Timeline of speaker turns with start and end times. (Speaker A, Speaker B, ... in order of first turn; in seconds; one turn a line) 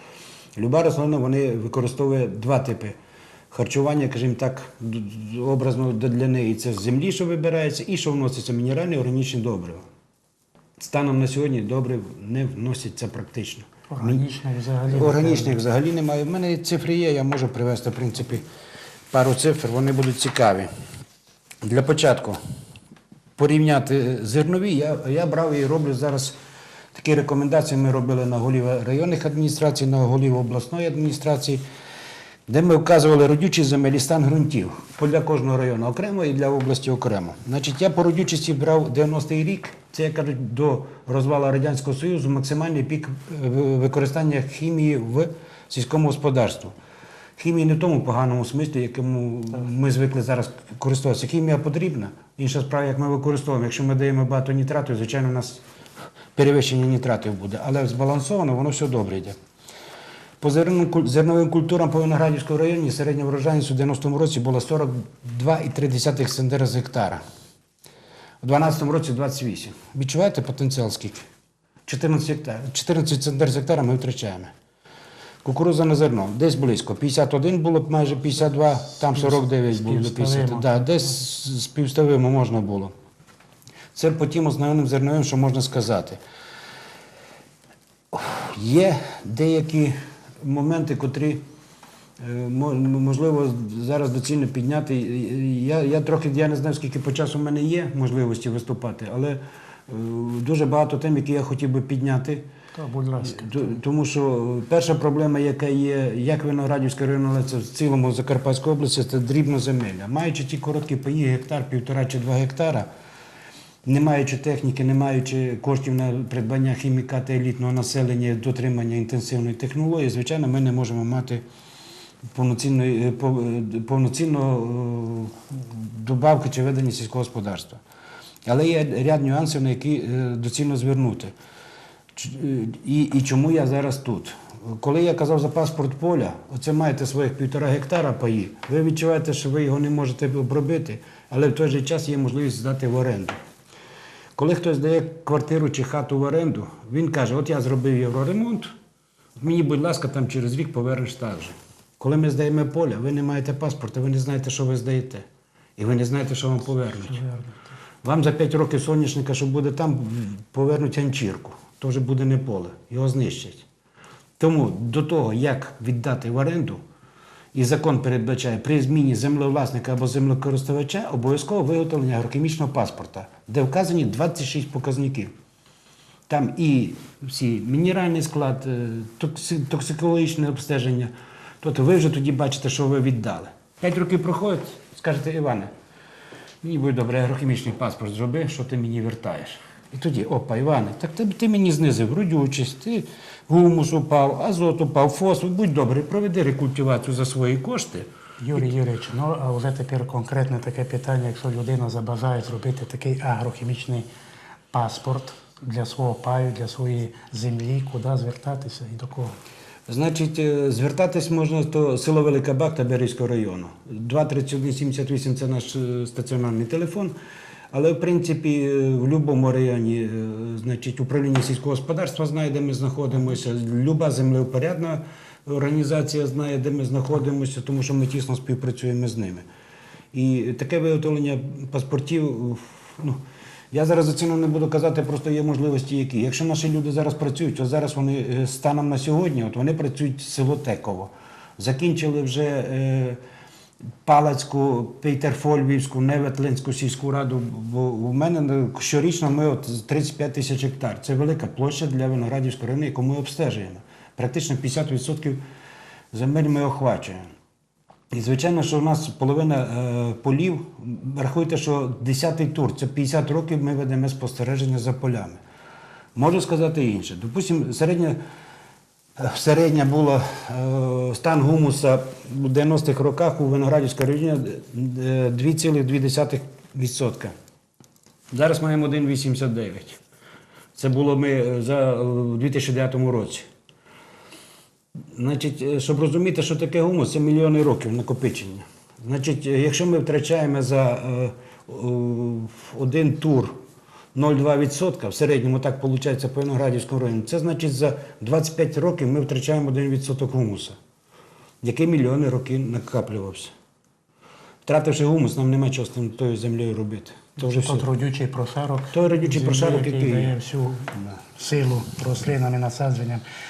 Speaker A: 0.6-3.0
Speaker A: 3.5-9.8
Speaker A: 10.8-14.2
Speaker B: 13.9-15.6
Speaker A: 14.9-18.4
Speaker A: 19.1-20.7
Speaker A: 21.6-22.4
Speaker A: 23.4-26.4
Speaker A: 26.9-31.6
Speaker A: 32.5-46.7
Speaker A: 47.4-55.6
Speaker A: 56.4-59.4
Speaker A: 60.4-67.2
Speaker A: 68.4-71.2
Speaker A: 71.8-74.5
Speaker A: 75.4-82.9
Speaker B: 78.7-81.1
Speaker A: 83.9-86.2
Speaker A: 88.1-91.4
Speaker A: 92.2-102.5
Speaker B: 102.7-103.7
Speaker A: 103.2-112.9
Speaker A: 113.8-121.4
Speaker A: 122.3-127.8
Speaker A: 128.4-131.3
Speaker A: 132.1-143.4
Speaker A: 144.4-148.7
Speaker A: 149.4-155.2
Speaker A: 155.8-157.2
Speaker B: 157.1-157.6
Speaker A: 158.0-163.6
Speaker A: 164.4-166.8
Speaker A: 167.5-175.3
Speaker A: 176.3-185.7
Speaker A: 186.6-198.1
Speaker B: 198.4-204.1
Speaker B: 204.7-209.3
Speaker A: 209.9-217.1
Speaker A: 217.7-229.4
Speaker A: 230.1-243.2
Speaker A: 244.0-255.4
Speaker A: 256.1-257.2
Speaker A: 258.1-265.4
Speaker A: 266.1-268.2
Speaker A: 269.2-277.3
Speaker A: 278.3-280.0
Speaker A: 280.8-283.5
Speaker A: 285.1-293.6
Speaker A: 294.1-300.8
Speaker A: 301.6-303.5
Speaker A: 304.6-307.9
Speaker B: 307.4-313.2
Speaker A: 308.9-310.3